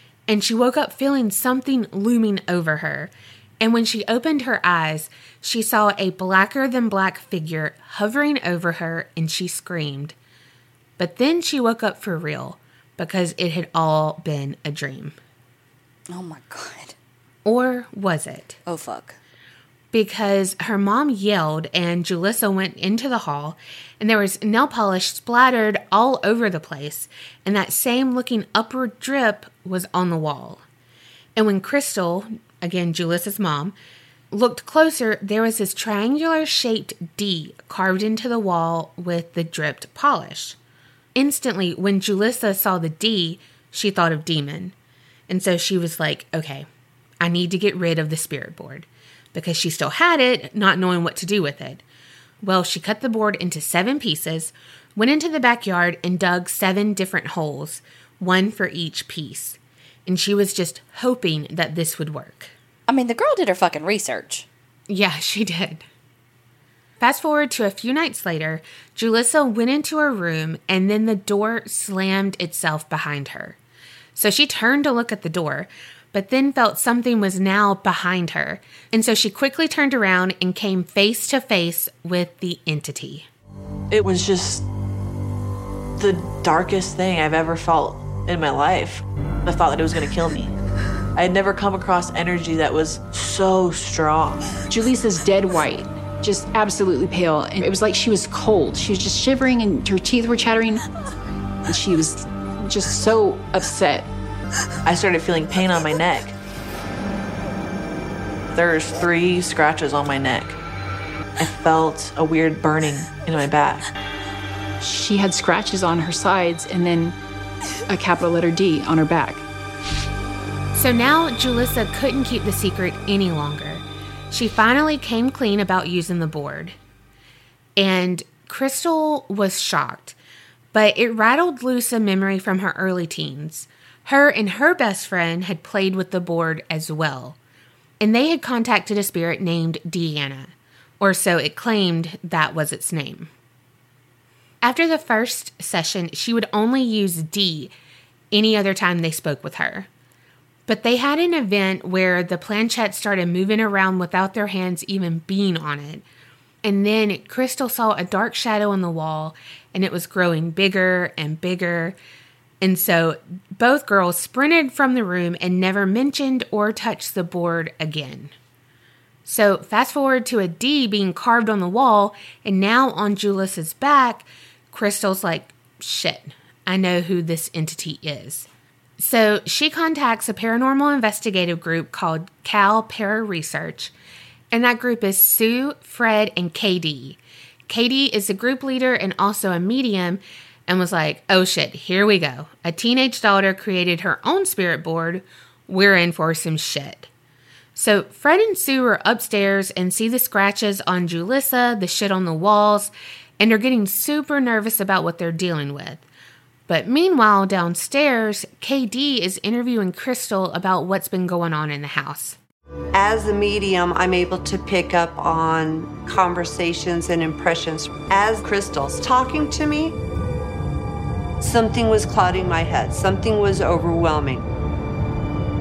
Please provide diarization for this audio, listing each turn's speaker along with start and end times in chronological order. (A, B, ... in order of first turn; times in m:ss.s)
0:00.3-0:10.1 A
0:11.0-0:15.2 A
0:16.1-0:16.9 B
0:17.4-0:18.6 A
0:18.6-0:19.2 B
0:19.9-0:30.6 A
0:31.4-0:33.7 A
0:34.3-0:40.6 A
0:41.1-0:44.7 A
0:45.3-0:46.6 A
0:47.2-0:51.8 A
0:52.4-1:02.5 A
1:02.9-1:04.4 B
1:04.9-1:05.8 A
1:07.0-1:13.6 A
1:14.1-1:23.2 A
1:23.9-1:24.6 C
1:26.0-1:30.5 C
1:31.2-1:34.5 C
1:34.7-1:40.8 D
1:41.7-1:44.1 D
1:44.8-1:46.3 C
1:48.5-1:50.6 C
1:51.4-1:53.8 C
1:54.8-1:57.2 D
1:57.9-1:59.4 D
2:00.7-2:06.7 A
2:07.8-2:10.2 A
2:10.7-2:17.4 A
2:18.0-2:23.3 A
2:24.6-2:27.7 A
2:28.3-2:29.9 A
2:30.7-2:36.0 A
2:36.6-2:42.0 A
2:42.6-2:48.3 A
2:49.2-3:03.9 A
3:04.5-3:17.1 A
3:17.7-3:26.0 A
3:26.7-3:32.4 A
3:32.9-3:40.0 E
3:41.4-3:44.4 E